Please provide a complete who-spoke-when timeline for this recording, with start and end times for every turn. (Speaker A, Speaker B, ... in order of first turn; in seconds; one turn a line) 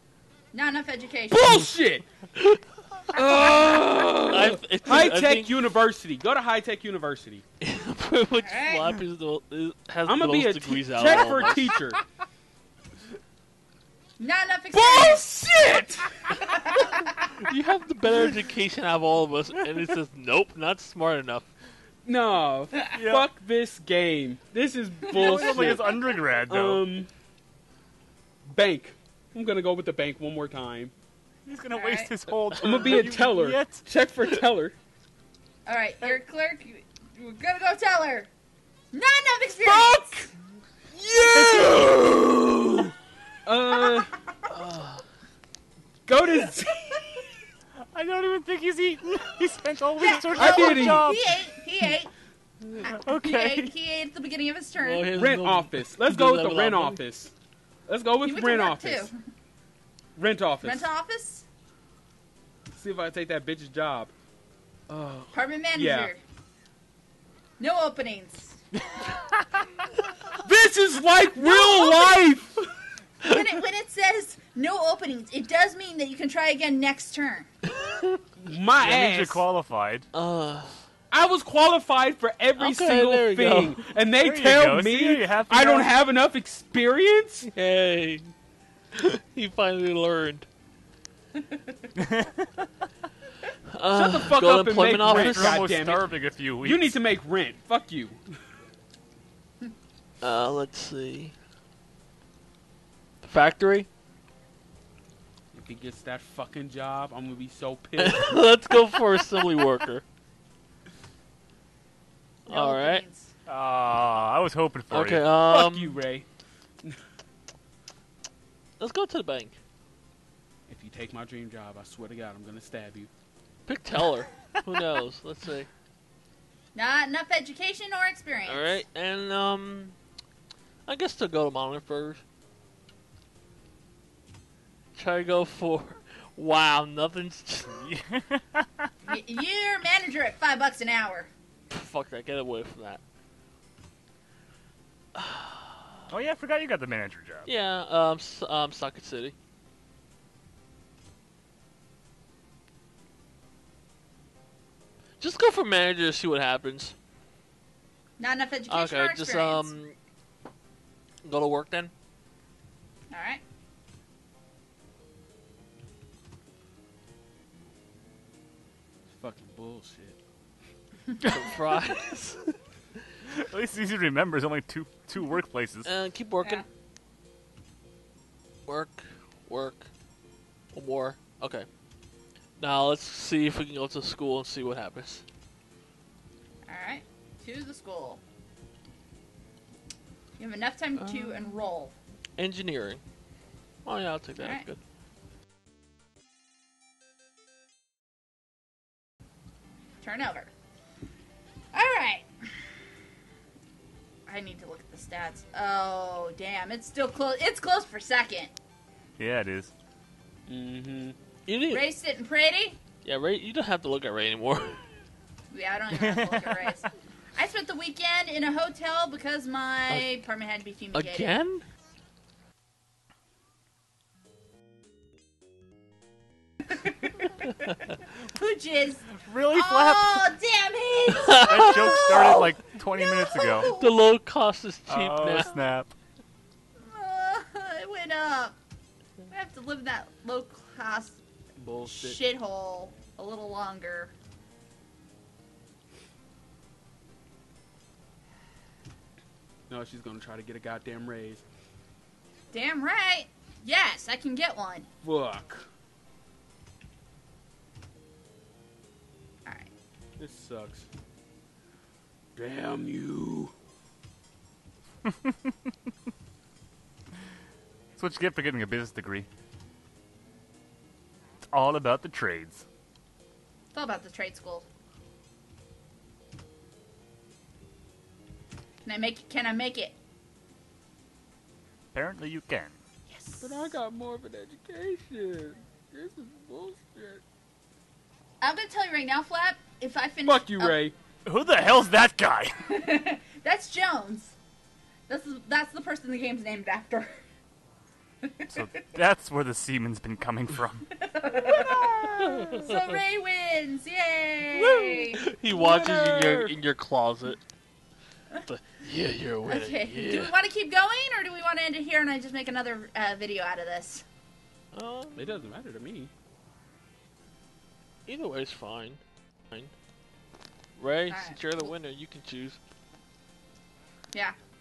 Speaker A: 0.5-1.6
Speaker B: 1.3-2.0
Speaker B: 3.1-7.4
Speaker C: 3.1-5.7
Speaker C: 7.6-11.8
Speaker A: 8.4-8.9
Speaker B: 10.1-12.0
Speaker A: 14.2-15.2
Speaker B: 14.7-16.6
Speaker A: 16.4-17.1
Speaker C: 17.2-21.5
Speaker B: 22.1-27.1
Speaker D: 22.9-23.3
Speaker D: 25.1-26.8
Speaker B: 28.4-30.9
Speaker D: 31.5-33.8
Speaker A: 31.7-32.1
Speaker B: 32.6-34.8
Speaker A: 35.7-38.3
Speaker A: 38.9-40.2
Speaker B: 39.6-40.3
Speaker B: 40.9-42.9
Speaker D: 41.3-41.9
Speaker B: 43.5-44.1
Speaker C: 44.5-45.0
Speaker B: 46.1-47.2
Speaker D: 47.9-51.4
Speaker A: 50.1-52.1
Speaker B: 50.3-51.1
Speaker D: 52.8-53.7
Speaker A: 52.8-55.1
Speaker C: 54.8-57.0
Speaker B: 55.1-57.3
Speaker B: 57.9-59.1
Speaker A: 58.2-59.1
Speaker B: 60.2-60.9
Speaker A: 60.6-61.5
Speaker B: 62.7-64.1
Speaker B: 64.9-66.1
Speaker A: 65.3-66.2
Speaker A: 67.6-68.6
Speaker B: 70.4-72.7
Speaker A: 71.4-72.3
Speaker A: 73.2-77.5
Speaker B: 78.4-79.4
Speaker D: 78.8-80.1
Speaker C: 80.1-80.8
Speaker B: 81.1-87.5
Speaker C: 82.6-83.9
Speaker D: 84.1-85.9
Speaker C: 87.5-88.3
Speaker C: 88.9-90.5
Speaker D: 92.0-92.7
Speaker C: 93.7-95.7
Speaker B: 93.9-98.2
Speaker D: 95.1-97.0
Speaker C: 100.2-101.3
Speaker C: 103.2-103.9
Speaker B: 105.5-108.4
Speaker C: 108.0-110.0
Speaker C: 112.5-113.0
Speaker A: 112.5-113.3
Speaker D: 113.5-115.3
Speaker C: 114.9-116.0
Speaker B: 115.4-116.3
Speaker C: 118.8-119.6
Speaker B: 120.7-123.1
Speaker C: 123.7-125.7
Speaker A: 126.8-128.8
Speaker C: 128.5-129.9
Speaker C: 130.9-132.2
Speaker C: 134.9-137.9
Speaker D: 137.7-138.9
Speaker A: 139.1-141.3
Speaker C: 141.7-143.0
Speaker C: 145.2-146.0
Speaker D: 146.1-147.5
Speaker C: 147.5-149.3
Speaker C: 155.2-156.9
Speaker A: 158.2-159.7
Speaker C: 158.7-160.0
Speaker C: 161.2-161.9
Speaker A: 163.1-163.4
Speaker B: 169.1-170.2
Speaker C: 171.2-172.6
Speaker D: 173.3-175.9
Speaker C: 175.8-176.7
Speaker C: 178.7-179.9
Speaker C: 180.7-181.7
Speaker C: 182.6-185.2
Speaker A: 186.7-188.2
Speaker A: 190.4-191.9
Speaker C: 191.0-191.6
Speaker C: 192.4-193.0
Speaker C: 193.8-194.8
Speaker A: 194.4-194.7
Speaker A: 200.0-200.5
Speaker A: 201.7-202.3
Speaker A: 204.3-208.5
Speaker D: 209.2-209.7
Speaker B: 210.5-211.2
Speaker C: 211.5-211.8
Speaker A: 211.7-212.8
Speaker C: 213.0-214.8
Speaker A: 215.5-221.3
Speaker D: 215.9-216.7
Speaker C: 220.9-221.7
Speaker A: 228.3-234.0
Speaker D: 229.2-230.3
Speaker C: 231.1-232.4
Speaker D: 231.5-233.7
Speaker C: 233.8-235.6
Speaker D: 234.9-235.9
Speaker A: 236.8-238.6
Speaker A: 239.3-241.2
Speaker B: 241.6-242.2
Speaker A: 241.9-244.1
Speaker B: 249.7-251.4
Speaker A: 252.5-254.9
Speaker B: 255.0-255.7
Speaker A: 259.5-259.7
Speaker B: 260.2-260.9
Speaker B: 262.4-263.5
Speaker D: 265.1-265.5
Speaker D: 268.0-269.3
Speaker D: 271.4-272.6
Speaker A: 273.7-274.6
Speaker A: 278.9-280.0
Speaker D: 281.9-282.8
Speaker A: 283.1-283.7
Speaker B: 283.4-287.2
Speaker A: 288.4-290.8
Speaker B: 290.3-290.9
Speaker D: 291.2-292.8
Speaker A: 292.7-294.4
Speaker A: 295.1-297.2
Speaker A: 298.2-298.5
Speaker D: 298.5-300.9
Speaker A: 300.9-305.2
Speaker C: 302.2-302.8
Speaker C: 304.5-307.4
Speaker B: 305.5-306.6
Speaker C: 308.5-310.3
Speaker A: 309.5-314.1
Speaker C: 314.7-315.4
Speaker B: 315.2-316.1
Speaker C: 318.1-319.7
Speaker C: 320.8-322.6
Speaker A: 321.1-321.4